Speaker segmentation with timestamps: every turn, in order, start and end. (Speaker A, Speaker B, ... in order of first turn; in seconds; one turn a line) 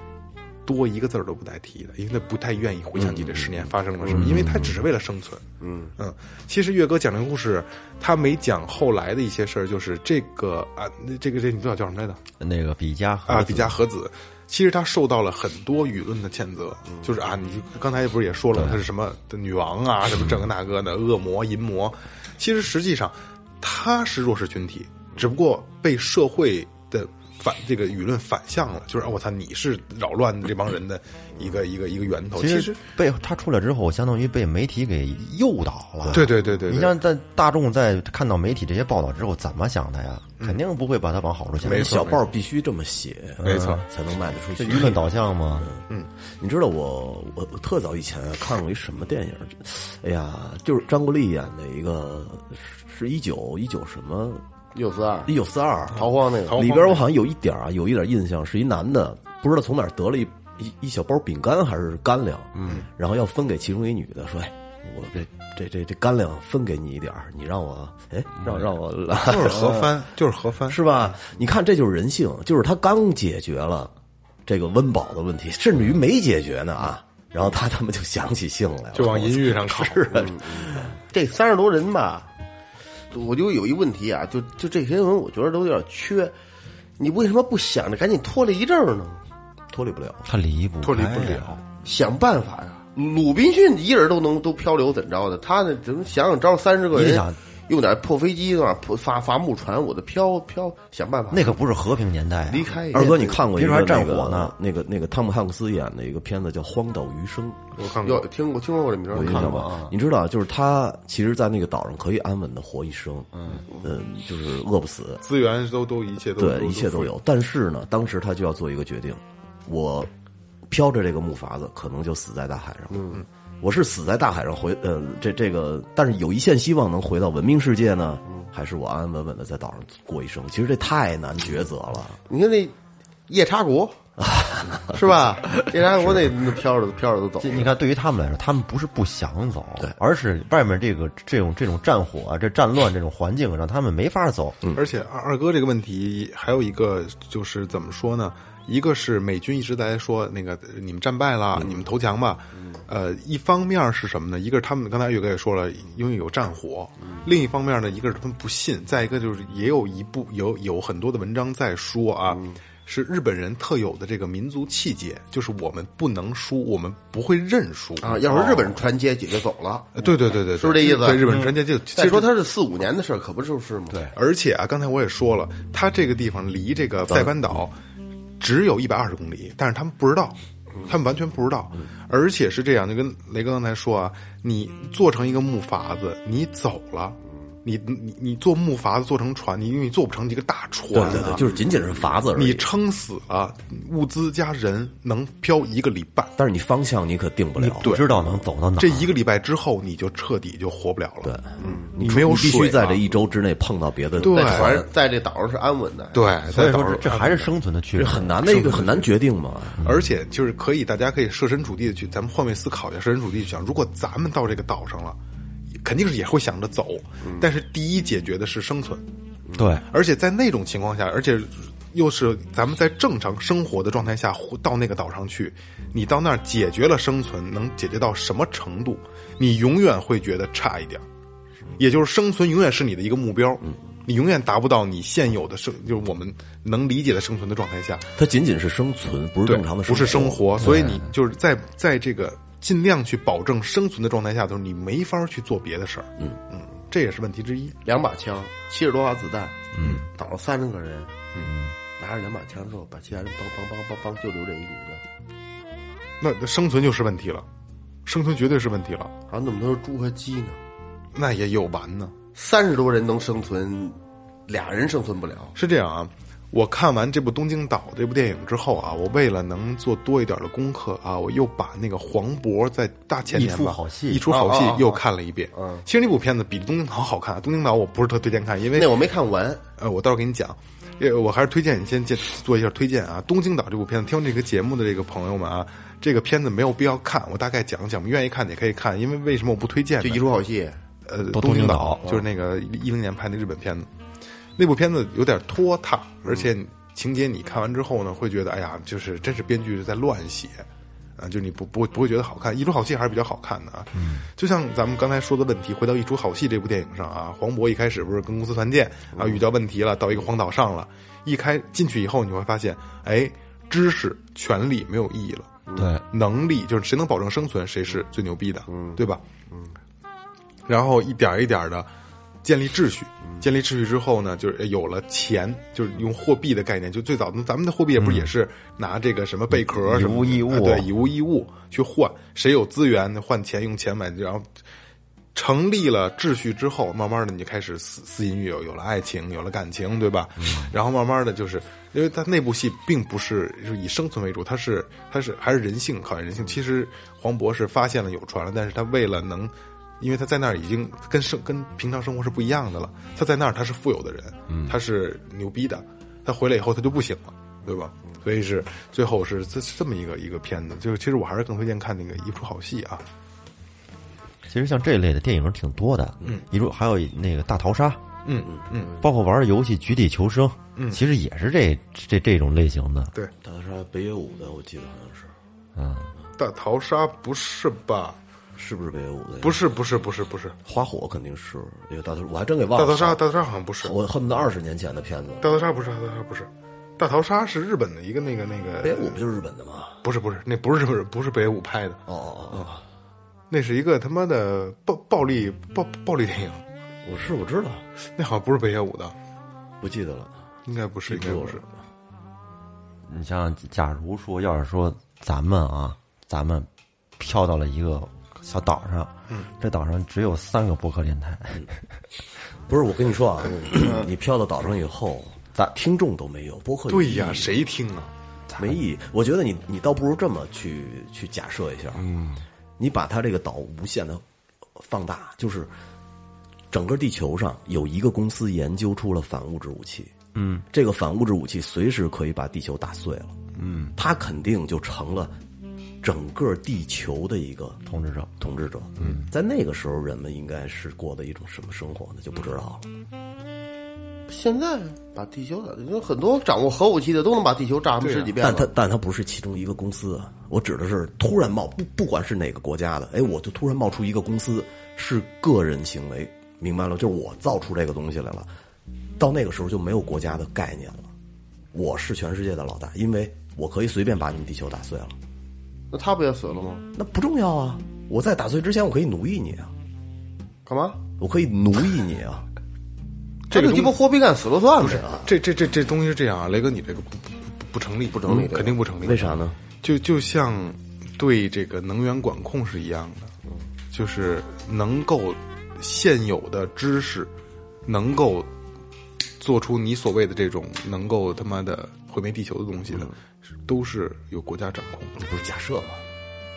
Speaker A: 0.7-5.4
Speaker B: 3.0-4.5
Speaker C: 4.1-4.8
Speaker D: 5.6-5.9
Speaker A: 6.0-12.2
Speaker C: 12.4-13.8
Speaker A: 13.3-32.8
Speaker C: 18.5-18.8
Speaker C: 32.4-42.1
Speaker A: 36.1-37.0
Speaker A: 41.6-42.2
Speaker B: 41.6-45.0
Speaker C: 43.4-43.8
Speaker A: 43.4-43.9
Speaker C: 44.5-45.7
Speaker B: 45.6-54.4
Speaker D: 54.7-55.3
Speaker B: 55.3-70.0
Speaker D: 55.9-56.6
Speaker A: 56.5-57.0
Speaker A: 69.2-70.8
Speaker B: 70.7-73.9
Speaker B: 74.5-80.9
Speaker A: 78.9-80.1
Speaker D: 80.1-82.3
Speaker D: 83.1-86.3
Speaker D: 87.0-89.2
Speaker B: 89.7-90.3
Speaker C: 90.2-91.6
Speaker A: 90.8-91.6
Speaker D: 91.8-101.6
Speaker C: 96.9-97.4
Speaker C: 101.3-104.5
Speaker D: 102.5-103.4
Speaker B: 102.9-107.6
Speaker A: 107.8-108.3
Speaker D: 108.0-109.7
Speaker B: 109.1-115.2
Speaker C: 109.2-110.0
Speaker A: 115.2-117.1
Speaker B: 116.4-120.1
Speaker B: 120.7-132.2
Speaker D: 122.9-123.2
Speaker D: 132.3-132.7
Speaker D: 133.3-134.0
Speaker B: 134.2-136.3
Speaker D: 134.9-137.7
Speaker C: 137.4-144.6
Speaker A: 144.7-168.7
Speaker D: 168.0-171.4
Speaker A: 169.9-172.3
Speaker D: 171.9-174.0
Speaker A: 174.1-177.8
Speaker A: 178.4-191.5
Speaker B: 190.9-192.7
Speaker A: 192.3-196.3
Speaker B: 196.4-197.9
Speaker C: 197.6-199.1
Speaker A: 197.8-198.1
Speaker A: 198.8-203.0
Speaker B: 201.2-204.9
Speaker A: 204.2-204.8
Speaker D: 204.2-206.3
Speaker A: 206.1-207.5
Speaker C: 206.5-208.7
Speaker B: 207.9-209.9
Speaker A: 208.4-209.1
Speaker A: 209.8-215.2
Speaker A: 215.8-219.0
Speaker C: 219.5-219.8
Speaker A: 219.9-231.0
Speaker A: 231.8-238.1
Speaker B: 238.2-240.9
Speaker A: 239.4-247.8
Speaker C: 240.6-241.0
Speaker D: 247.8-251.1
Speaker C: 249.7-250.0
Speaker C: 251.4-251.7
Speaker D: 252.0-255.0
Speaker A: 256.2-257.4
Speaker A: 258.1-259.1
Speaker D: 259.3-260.6
Speaker A: 261.1-262.1
Speaker D: 262.3-265.5
Speaker A: 265.6-279.0
Speaker C: 273.3-274.3
Speaker D: 274.3-275.0
Speaker D: 275.5-275.8
Speaker D: 278.7-279.6
Speaker A: 279.8-290.3
Speaker D: 290.0-290.8
Speaker A: 291.1-293.9
Speaker C: 291.3-292.1
Speaker A: 294.6-300.6
Speaker A: 301.2-319.2
Speaker C: 303.9-304.3
Speaker C: 315.8-316.0
Speaker D: 318.7-319.0
Speaker A: 320.7-321.9
Speaker A: 322.4-334.5
Speaker C: 328.0-328.3
Speaker C: 329.5-330.9
Speaker A: 335.3-363.0
Speaker C: 354.5-354.7
Speaker C: 364.4-368.0
Speaker A: 368.2-369.0
Speaker C: 368.9-373.1
Speaker A: 370.8-371.0
Speaker B: 373.4-375.3
Speaker C: 375.8-376.1
Speaker A: 376.4-378.2
Speaker B: 378.6-379.6
Speaker A: 379.4-380.6
Speaker B: 380.6-383.2
Speaker A: 382.7-383.9
Speaker B: 383.8-385.5
Speaker A: 385.4-389.2
Speaker B: 388.8-389.9
Speaker A: 390.0-392.0
Speaker B: 392.1-392.8
Speaker A: 393.5-396.6
Speaker B: 397.0-397.8
Speaker A: 398.1-399.1
Speaker B: 399.8-400.3
Speaker A: 400.7-401.6
Speaker B: 401.1-401.6
Speaker C: 403.1-411.8
Speaker B: 412.7-417.6
Speaker A: 416.9-418.1
Speaker B: 418.6-422.1
Speaker C: 421.9-422.4
Speaker B: 422.8-424.2
Speaker B: 424.8-425.7
Speaker B: 426.7-430.1
Speaker C: 430.3-430.6
Speaker B: 430.7-433.4
Speaker C: 433.6-433.9
Speaker B: 433.9-435.3
Speaker B: 436.0-437.8
Speaker C: 437.9-438.3
Speaker B: 438.4-442.9
Speaker C: 439.0-439.2
Speaker D: 444.3-448.7
Speaker A: 448.0-448.3
Speaker B: 448.4-458.5
Speaker B: 459.2-461.1
Speaker B: 461.7-465.1
Speaker D: 465.9-466.9
Speaker B: 466.9-469.7
Speaker D: 470.6-471.0
Speaker B: 471.2-472.5
Speaker A: 473.5-474.0
Speaker D: 473.5-475.0
Speaker A: 474.8-483.3
Speaker B: 474.8-475.3
Speaker D: 478.1-478.8
Speaker B: 478.3-479.6
Speaker A: 483.9-487.3
Speaker A: 487.9-488.5
Speaker A: 489.4-493.1
Speaker A: 493.6-495.2
Speaker B: 495.2-496.0